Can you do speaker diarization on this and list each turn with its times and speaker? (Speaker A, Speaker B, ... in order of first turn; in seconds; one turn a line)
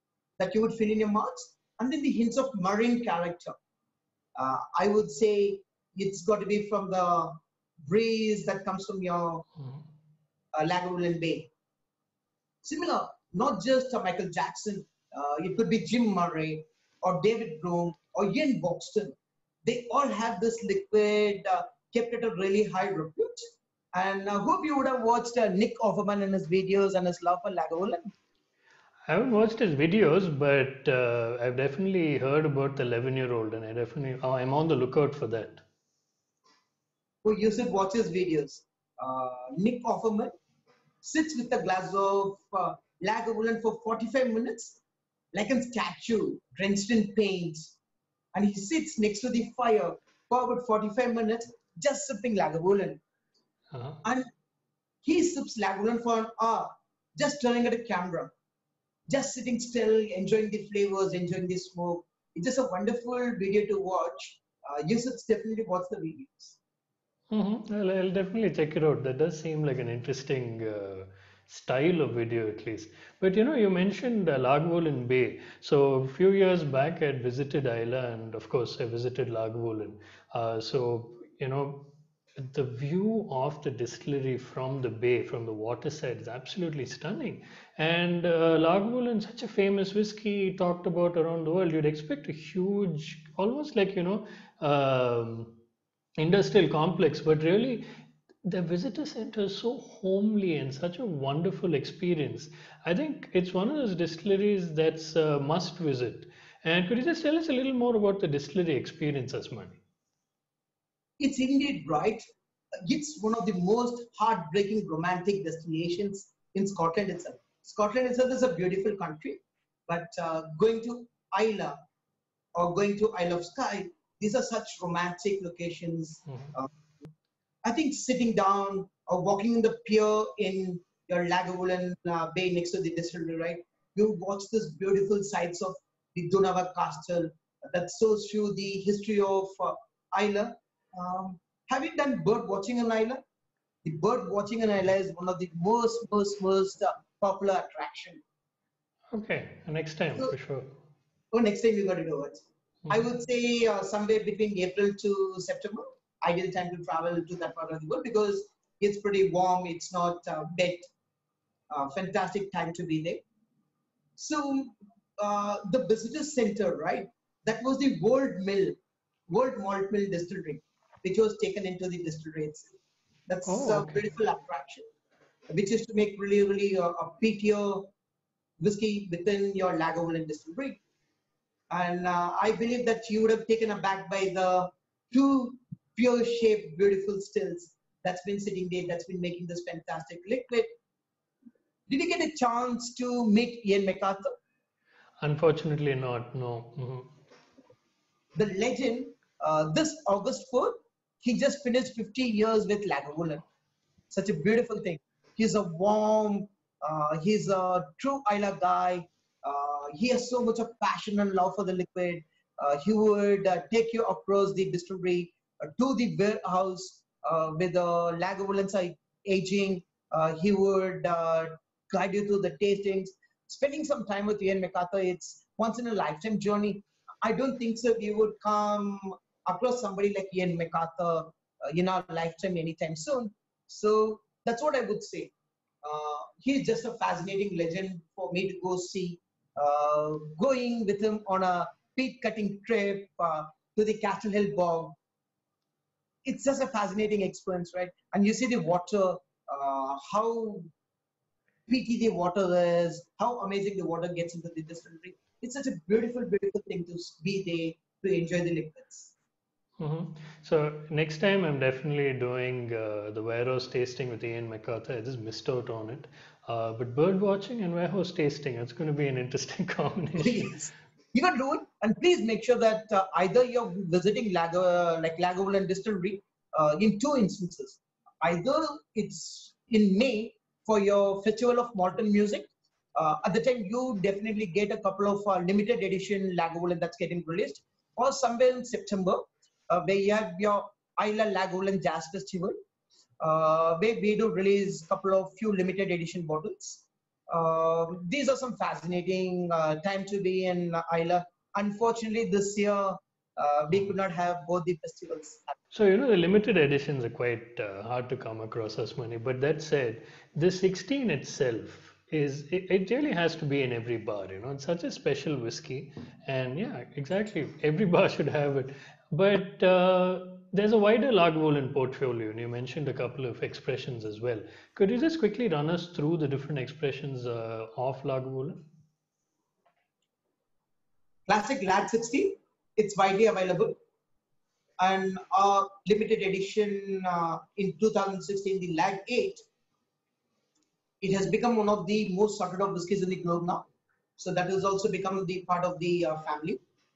Speaker A: 0.4-3.6
Speaker A: 4.4-9.5
Speaker A: 10.5-11.5
Speaker A: 12.6-23.4
Speaker A: 23.9-28.1
Speaker B: 29.1-35.6
Speaker A: 37.2-40.3
Speaker A: 41.0-44.8
Speaker A: 45.3-47.7
Speaker A: 48.3-53.0
Speaker B: 53.7-54.0
Speaker A: 54.0-54.3
Speaker A: 55.0-58.3
Speaker A: 59.1-66.6
Speaker B: 67.3-95.5
Speaker B: 96.2-97.8
Speaker B: 98.5-109.8
Speaker A: 111.2-112.2
Speaker A: 112.8-121.8
Speaker A: 122.5-126.7
Speaker A: 127.7-143.2
Speaker A: 143.8-148.2
Speaker B: 149.1-150.7
Speaker A: 151.3-160.9
Speaker A: 161.7-163.2
Speaker A: 164.2-168.8
Speaker A: 169.3-174.9
Speaker B: 173.4-174.0
Speaker A: 175.5-177.9
Speaker A: 178.6-180.8
Speaker A: 181.7-190.7
Speaker A: 191.9-194.3
Speaker B: 195.2-197.1
Speaker A: 198.4-203.4
Speaker A: 204.1-245.0
Speaker A: 246.2-250.7
Speaker A: 251.7-259.1
Speaker B: 259.8-270.6
Speaker A: 270.2-292.6
Speaker A: 293.2-305.6
Speaker B: 305.7-328.6
Speaker A: 331.3-333.8
Speaker A: 334.8-339.4
Speaker A: 341.0-343.7
Speaker A: 344.2-346.6